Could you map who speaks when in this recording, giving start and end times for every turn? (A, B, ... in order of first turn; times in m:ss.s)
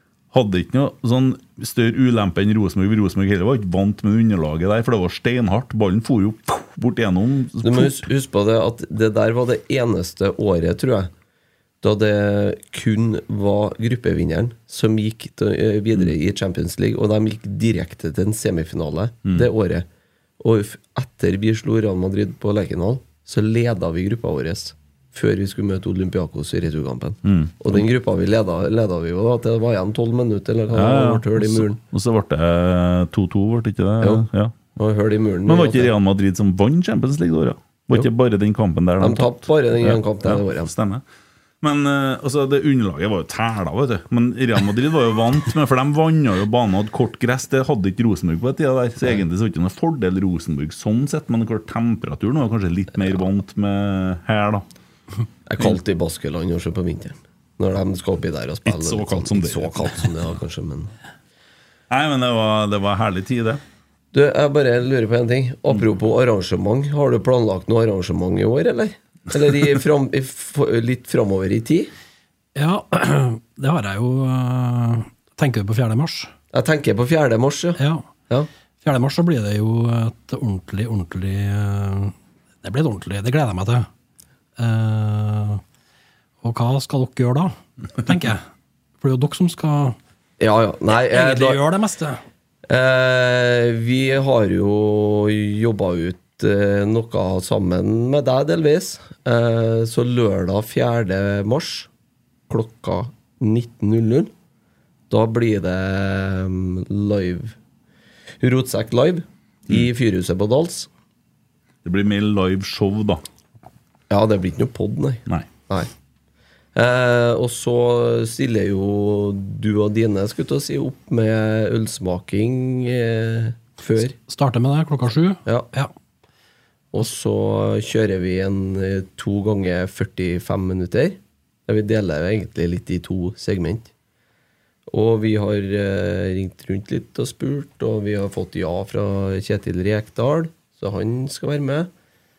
0:00.3-0:08.0 A
0:07.6-0:11.1 B
0:11.8-0:19.8 B
0:20.4-0:31.8 B
0:27.2-0:27.8 A
0:30.7-0:34.6 A
0:34.8-0:35.9 B
0:35.4-0:41.0 A
0:39.0-0:40.7 B
0:41.6-0:54.6 A
0:55.5-1:00.9 B
0:58.6-0:59.9 A
1:01.9-1:03.6 A
1:04.1-1:11.9 B
1:12.5-1:16.3 C
1:16.5-1:18.5 B
1:17.8-1:18.1 C
1:18.8-1:23.9 C
1:24.6-1:25.6 C
1:26.4-1:28.4 C
1:29.0-1:30.0 C
1:30.4-1:31.6 B
1:31.1-1:32.2 C
1:32.7-1:41.9 B
1:42.5-1:44.3 B
1:45.1-1:47.5 B
1:48.4-1:50.9 B
1:51.8-1:53.2 A
1:54.1-1:55.9 B
1:56.7-2:04.1 B
2:04.2-2:05.9 C
2:06.9-2:13.9 B
2:14.9-2:21.9 B